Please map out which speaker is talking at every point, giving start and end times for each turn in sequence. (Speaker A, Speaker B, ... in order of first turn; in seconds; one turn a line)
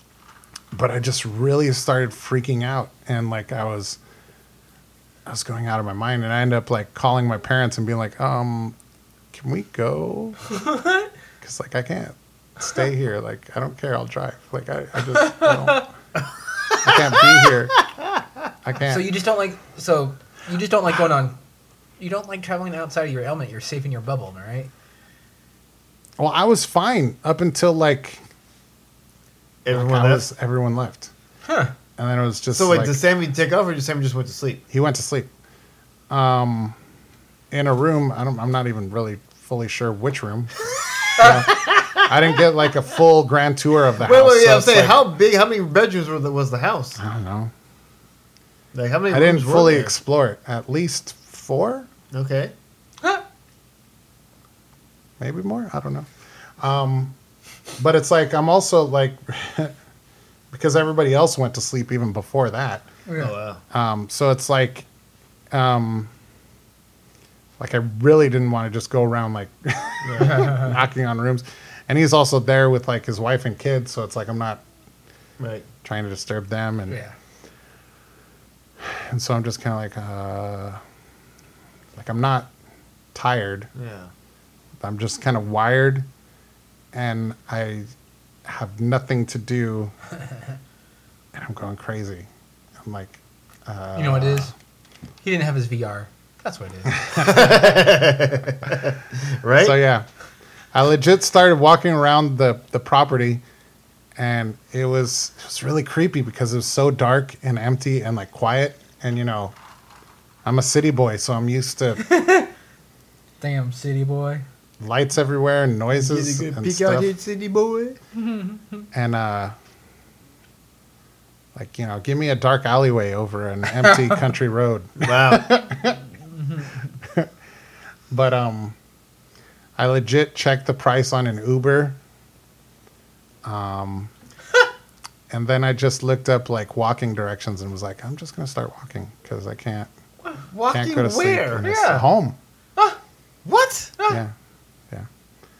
Speaker A: 0.7-4.0
Speaker A: 5.2-8.8
Speaker A: 9.3-10.4
Speaker B: 10.5-11.1
Speaker A: 11.4-15.9
Speaker B: 15.1-15.8
Speaker A: 16.8-17.8
Speaker A: 18.6-19.1
Speaker B: 18.9-21.4
Speaker B: 22.0-24.7
Speaker A: 26.2-28.2
Speaker C: 29.6-30.3
Speaker A: 29.7-31.1
Speaker B: 31.4-31.7
Speaker A: 32.0-33.0
Speaker C: 32.5-34.6
Speaker A: 34.7-35.3
Speaker A: 36.1-36.8
Speaker A: 37.5-40.5
Speaker B: 41.1-41.5
Speaker A: 41.2-45.0
Speaker C: 41.2-42.1
Speaker C: 44.0-47.0
Speaker A: 47.0-47.5
Speaker C: 48.7-49.9
Speaker A: 49.1-51.9
Speaker C: 52.1-52.5
Speaker A: 55.2-57.1
Speaker A: 57.8-59.8
Speaker A: 60.5-62.9
Speaker B: 63.1-63.3
Speaker C: 63.2-63.6
Speaker A: 63.7-64.9
Speaker A: 65.5-66.1
Speaker A: 67.6-74.6
Speaker C: 70.0-70.6
Speaker B: 70.2-70.7
Speaker C: 75.4-75.7
Speaker A: 75.8-77.0
Speaker B: 76.9-77.1
Speaker A: 78.8-80.8
Speaker A: 81.9-82.5
Speaker A: 83.1-83.7
Speaker C: 83.8-84.1
Speaker A: 84.8-86.1
Speaker A: 86.9-87.9
Speaker A: 88.4-89.9
Speaker A: 91.3-92.3
Speaker A: 92.8-94.5
Speaker B: 93.9-94.5
Speaker B: 95.2-97.5
Speaker C: 97.2-99.8
Speaker A: 99.6-100.0
Speaker A: 100.7-103.4
Speaker A: 104.2-109.5
Speaker A: 110.4-112.0
Speaker B: 112.0-112.5
Speaker B: 113.4-114.4
Speaker A: 114.8-117.1
Speaker C: 116.0-118.0
Speaker B: 118.1-118.8
Speaker A: 118.9-119.5
Speaker A: 121.5-126.0
Speaker B: 123.8-124.2
Speaker C: 125.0-125.6
Speaker A: 127.0-127.3
Speaker A: 128.1-128.8
Speaker A: 129.8-132.0
Speaker A: 133.4-134.1
Speaker A: 135.3-139.9
Speaker C: 140.4-141.6
Speaker A: 140.7-142.4
Speaker B: 141.6-142.1
Speaker C: 143.4-143.9